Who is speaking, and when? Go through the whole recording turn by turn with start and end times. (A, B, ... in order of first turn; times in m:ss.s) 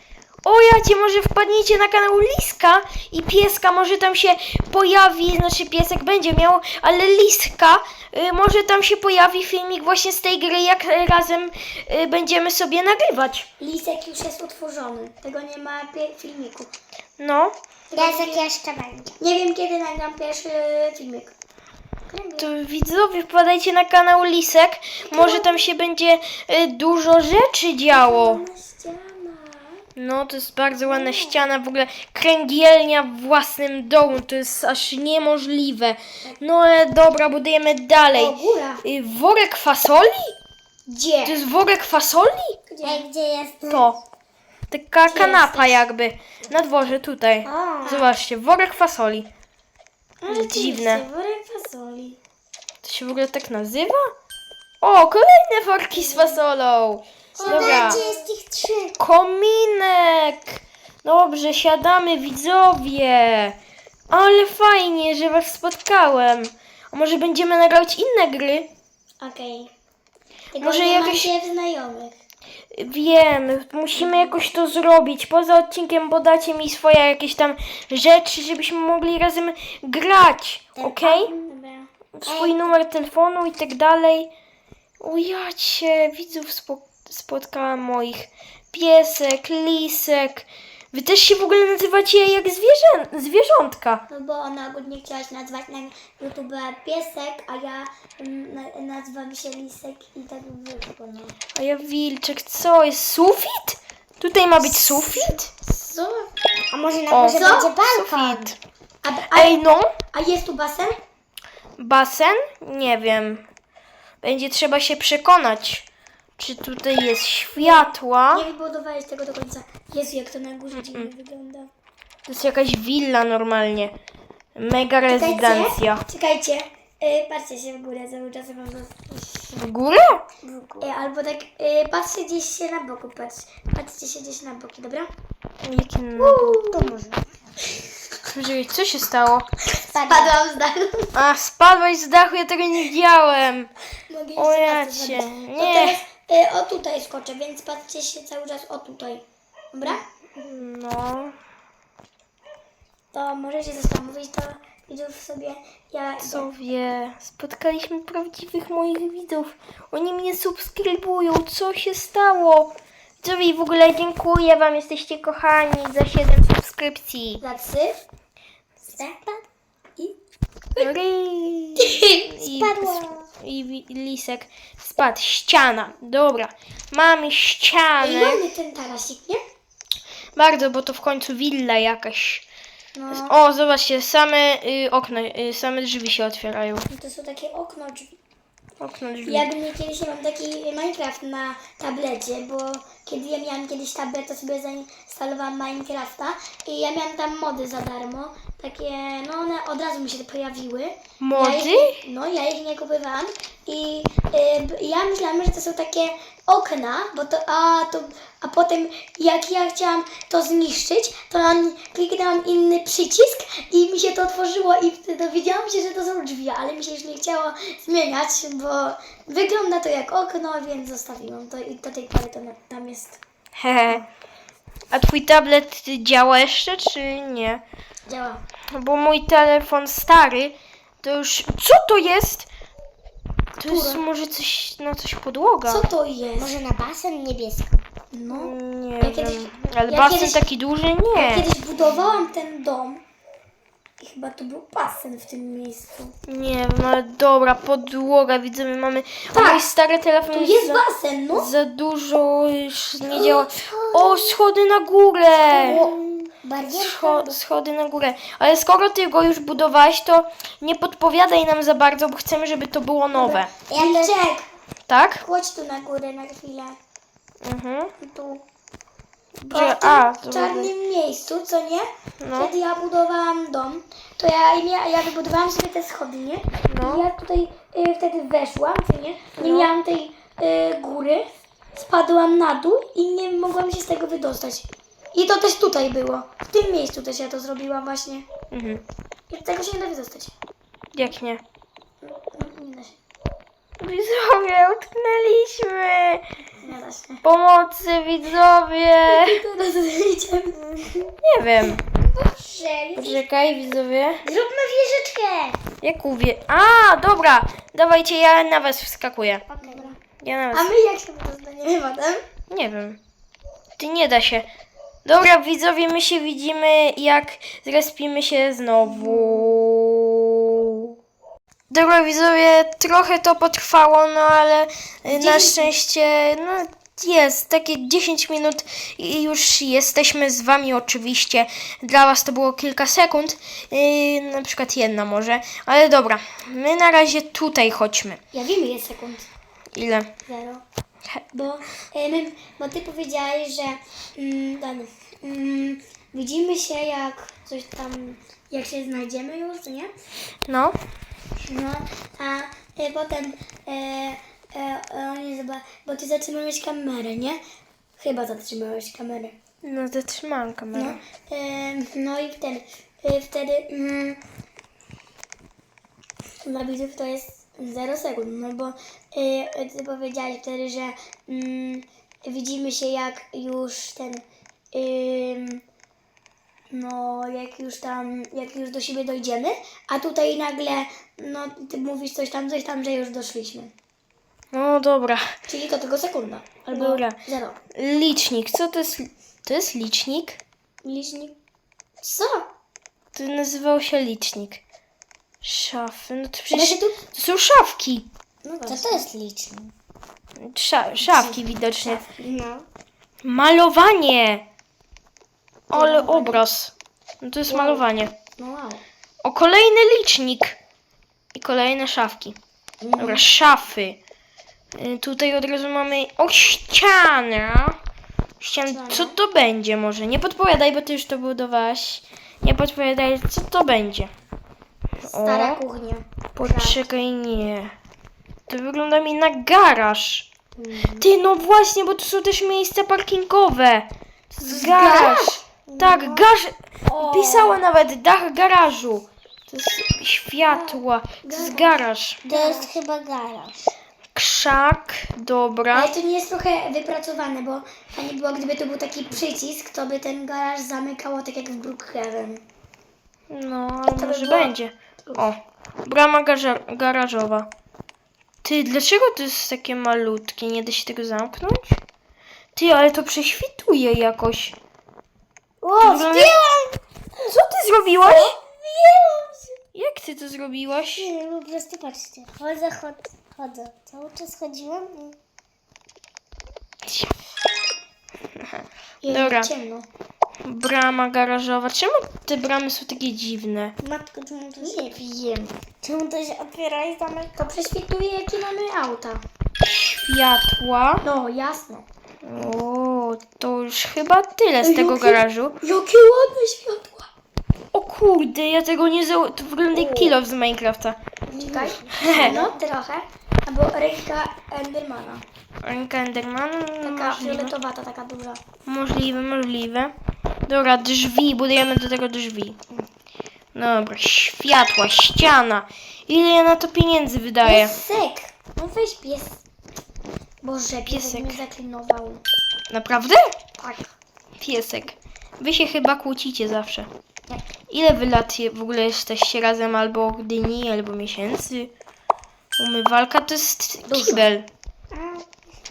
0:00.4-0:13.5 A
0:13.6-0:16.7 B
0:17.2-0:17.6 A
0:17.9-0:18.5 B
0:17.9-0:19.2 C
0:19.2-0:21.3 B
0:22.1-0:22.5 B
0:22.4-0:28.4 A
0:25.1-0:25.7 B
0:27.9-0:29.8 B
0:30.0-0:40.4 A
0:30.9-0:31.4 B
0:38.1-0:38.8 B
0:40.9-0:41.4 B
0:41.2-0:42.6 A
0:42.7-0:43.1 B
0:42.8-0:43.9 C
0:43.7-0:44.0 A
0:44.7-0:49.3 A
0:45.1-0:45.8 B
0:47.4-0:48.1 C
0:50.2-0:52.2 B
0:50.3-0:51.0 A
0:52.8-0:54.0 A
0:54.8-0:58.0 A
0:55.9-0:56.4 B
0:57.4-0:58.3 B
0:57.4-0:59.0 C
0:59.0-1:03.6 A
1:04.1-1:08.7 A
1:09.2-1:09.7 B
1:10.5-1:12.2 B
1:10.6-1:11.3 A
1:12.7-1:21.3 A
1:14.0-1:14.4 B
1:20.8-1:21.3 C
1:21.1-1:21.9 B
1:22.2-1:24.3 A
1:22.2-1:22.7 C
1:25.0-1:34.0 A
1:34.1-1:41.4 B
1:41.6-1:45.5 A
1:44.7-1:46.3 B
1:46.7-1:48.5 C
1:47.1-1:48.6 A
1:47.3-1:47.7 B
1:49.0-1:49.6 B
1:49.3-1:49.9 A
1:50.1-1:51.0 B
1:51.8-1:53.4 A
1:54.2-1:55.9 A
1:56.4-1:58.5 A
1:57.6-2:01.7 B
2:00.8-2:01.1 A
2:02.3-2:03.9 A
2:04.6-2:06.0 A
2:05.1-2:09.5 B
2:09.5-2:10.2 A
2:10.4-2:10.9 C
2:10.8-2:15.1 B
2:15.6-2:16.9 A
2:16.2-2:17.2 C
2:18.3-2:19.5 A
2:19.8-2:21.1 B
2:19.9-2:20.4 C
2:21.2-2:23.7 A
2:24.1-2:30.0 B
2:24.4-2:26.0 A
2:30.4-2:31.4 A
2:33.1-2:36.5 B
2:36.2-2:47.4 A
2:47.4-2:48.0 B
2:48.8-2:49.4 C
2:50.8-2:58.4 A
2:51.8-2:52.2 B
2:52.4-2:53.3 C
2:58.0-2:59.4 B
3:00.4-3:02.4 A
3:02.9-3:03.3 B
3:03.1-3:06.9 A
3:06.9-3:08.2 B
3:08.8-3:09.5 A
3:09.2-3:43.2 B
3:21.2-3:22.0 A
3:43.6-3:44.1 A
3:44.9-3:47.6 A
3:48.1-3:48.4 B
3:48.7-3:52.5 A
3:53.6-3:55.9 A
3:53.6-3:54.0 B
3:55.7-3:56.6 B
3:56.4-3:57.8 C
3:58.1-4:00.4 B
3:58.3-4:01.5 A
4:01.2-4:03.0 B
4:04.0-4:06.1 B
4:06.3-4:10.8 A
4:09.3-4:09.6 B
4:10.3-4:11.5 B
4:11.3-4:15.8 A
4:13.1-4:14.3 C
4:15.5-4:17.4 C
4:15.6-4:15.9 B
4:16.6-4:23.5 A
4:23.1-4:24.4 B
4:23.7-4:24.2 C
4:24.9-4:25.2 A
4:25.2-4:26.8 B
4:27.4-4:27.9 A
4:28.0-4:28.4 B
4:29.4-4:30.7 A
4:29.5-4:48.2 B
4:32.2-4:32.5 A
4:36.7-4:37.0 A
4:39.4-4:39.7 A
4:48.5-4:48.8 A
4:49.3-4:50.3 B
4:50.9-4:51.4 A
4:52.0-4:53.0 B
4:53.8-4:56.2 A
4:56.6-4:57.2 B
4:57.2-4:59.4 A
4:59.1-5:00.8 B
5:01.2-5:01.8 A
5:01.8-5:03.2 B
5:02.9-5:04.2 A
5:04.2-5:05.6 C
5:05.8-5:09.5 A
5:09.5-5:10.0 C
5:09.6-5:10.0 B
5:10.2-5:10.7 A
5:10.5-5:12.2 B
5:12.5-5:13.0 A
5:13.8-5:14.5 A
5:15.0-5:20.9 A
5:18.8-5:19.6 B
5:21.7-5:38.2 A
5:25.1-5:25.7 B
5:38.3-5:39.3 B
5:39.7-5:40.1 A
5:40.3-5:40.6 B
5:41.3-5:49.9 B
5:50.5-5:50.8 A
5:51.4-5:57.4 B
5:58.0-5:59.4 B
5:59.6-6:01.0 A
6:00.7-6:04.2 B
6:06.4-6:15.6 B
6:16.7-6:23.7 B
6:24.5-6:25.3 A
6:25.5-6:27.6 B
6:26.7-6:27.2 A
6:27.8-6:30.4 A
6:30.8-6:31.3 B
6:32.0-6:32.4 B
6:33.2-6:34.6 A
6:35.4-6:38.1 A
6:36.5-6:37.0 B
6:38.4-6:39.1 B
6:38.7-6:39.7 C
6:40.4-6:42.0 A
6:41.1-6:42.3 B
6:42.2-6:42.7 C
6:43.2-6:44.4 A
6:45.7-6:48.1 A
6:45.7-6:46.4 B
6:47.5-6:47.8 B
6:48.4-6:48.8 B
6:49.2-6:50.6 A
6:51.3-6:52.4 A
6:52.8-6:53.2 C
6:53.0-6:54.0 A
6:54.8-6:57.8 A
6:58.4-7:04.1 A
6:58.8-6:59.1 B
7:05.0-7:06.8 B
7:05.1-7:05.6 A
7:06.3-7:07.7 A
7:08.5-7:10.3 A
7:10.6-7:11.1 C
7:11.0-7:22.2 A
7:14.4-7:15.3 B
7:14.7-7:15.1 C
7:15.7-7:16.3 C
7:16.9-7:17.6 B
7:20.4-7:22.8 B
7:22.3-7:23.7 C
7:24.2-7:25.9 A
7:25.7-7:32.4 B
7:33.3-7:37.5 A
7:33.9-7:34.5 B
7:38.4-7:41.8 A
7:42.6-7:44.6 A
7:45.6-7:46.8 C
7:45.8-7:46.4 A
7:47.2-7:48.3 A
7:48.1-7:49.5 C
7:49.7-7:51.1 A
7:51.0-7:55.2 C
7:56.9-7:57.1 A
7:58.4-7:59.5 A
7:59.0-7:59.8 B
8:00.4-8:03.8 A
8:03.8-8:04.8 C
8:04.6-8:05.6 B
8:05.8-8:07.3 C
8:07.4-8:09.2 B
8:09.6-8:11.0 A
8:11.0-8:11.8 B
8:12.2-8:15.6 A
8:14.6-8:17.1 B
8:17.7-8:21.0 A
8:19.8-8:20.2 B
8:21.3-8:22.6 C
8:21.3-8:25.2 B
8:22.0-8:22.5 A
8:25.6-8:27.5 A
8:26.8-8:28.4 B
8:28.7-8:29.9 A
8:30.5-8:32.6 A
8:33.5-8:37.8 A
8:37.4-8:39.4 B
8:40.4-8:42.2 B
8:40.9-8:41.4 A
8:42.7-8:43.3 A
8:43.6-8:43.9 B
8:44.4-8:46.9 A
8:47.7-8:51.7 A
8:52.6-8:54.5 A
8:53.9-8:54.3 B
8:54.9-8:55.3 C